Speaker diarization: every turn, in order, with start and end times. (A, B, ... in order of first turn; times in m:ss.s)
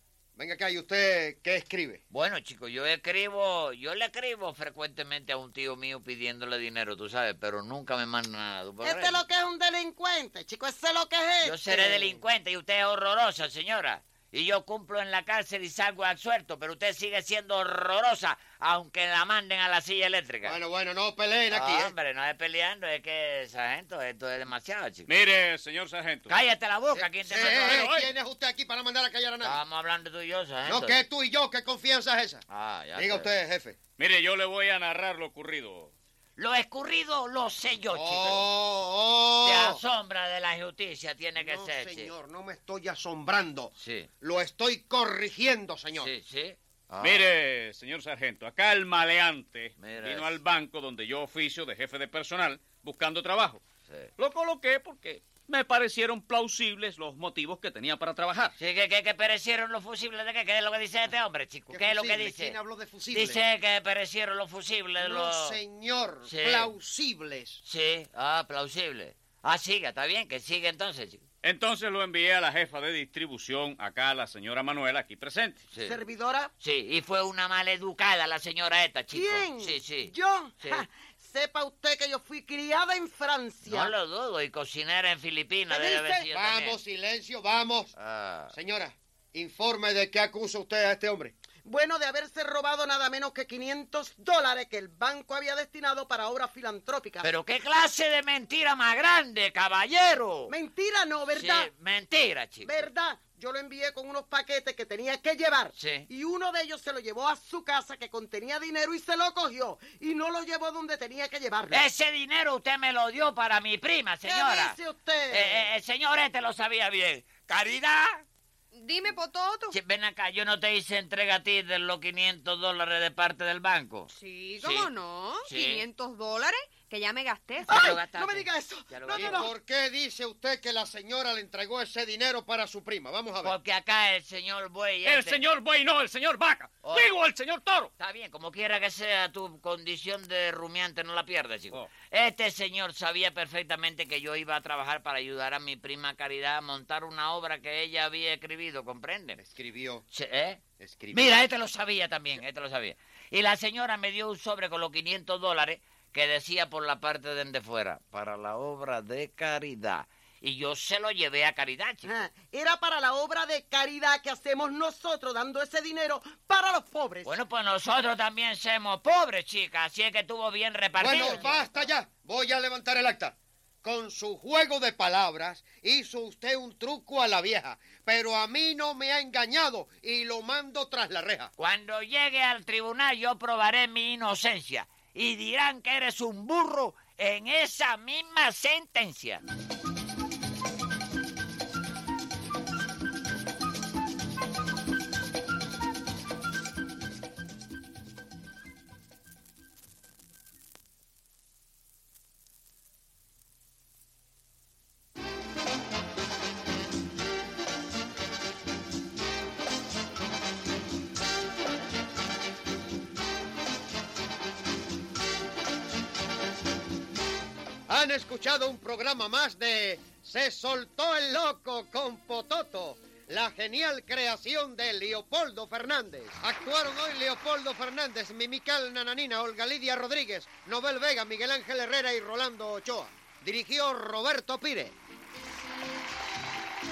0:00.4-0:02.0 A
0:02.1-0:09.2 B
0:08.8-0:12.2 C
0:11.4-0:20.6 B
0:20.4-0:21.9 A
0:21.5-0:25.1 B
0:25.1-0:26.3 D
0:26.3-0:27.9 B
0:26.9-0:29.6 A
0:27.3-0:28.1 D
0:29.4-0:31.0 B
0:30.6-0:32.4 A
0:32.5-0:33.3 B
0:33.0-0:33.8 A
0:34.0-0:35.9 D
0:36.4-0:38.5 B
0:37.9-0:39.8 A
0:39.4-0:42.1 B
0:41.4-0:46.1 A
0:43.8-0:44.1 B
0:46.0-0:47.2 B
0:47.0-0:53.6 D
0:49.8-0:50.4 B
0:54.2-0:58.5 D
0:58.6-1:02.6 B
1:01.7-1:03.4 A
1:03.1-1:05.6 B
1:05.0-1:07.6 A
1:06.3-1:06.7 B
1:07.6-1:11.2 B
1:11.4-1:15.6 D
1:15.7-1:16.0 B
1:15.8-1:16.5 C
1:16.6-1:20.8 B
1:19.1-1:23.9 C
1:23.6-1:26.8 B
1:25.7-1:26.3 C
1:26.3-1:27.9 A
1:28.0-1:28.5 B
1:28.5-1:31.3 A
1:31.6-1:37.3 C
1:37.2-1:40.5 B
1:40.5-1:41.7 C
1:41.3-1:42.9 B
1:42.6-1:51.8 C
1:45.8-1:46.1 B
1:51.7-1:54.8 B
1:54.2-1:55.7 C
1:55.3-1:58.2 B
1:58.7-1:59.7 E
1:59.7-2:04.9 B
2:04.1-2:07.7 E
2:05.4-2:05.8 B
2:07.6-2:09.5 B
2:07.7-2:09.5 C
2:09.1-2:13.5 A
2:13.4-2:15.4 B
2:15.0-2:17.9 D
2:16.8-2:17.1 B
2:18.0-2:29.4 B
2:29.4-2:30.0 A
2:30.1-2:42.2 B
2:30.8-2:31.4 A
2:42.0-2:47.3 C
2:47.2-2:51.6 B
2:51.0-3:01.5 A
2:51.1-2:51.9 C
3:01.6-3:09.4 B
3:37.9-3:55.0 A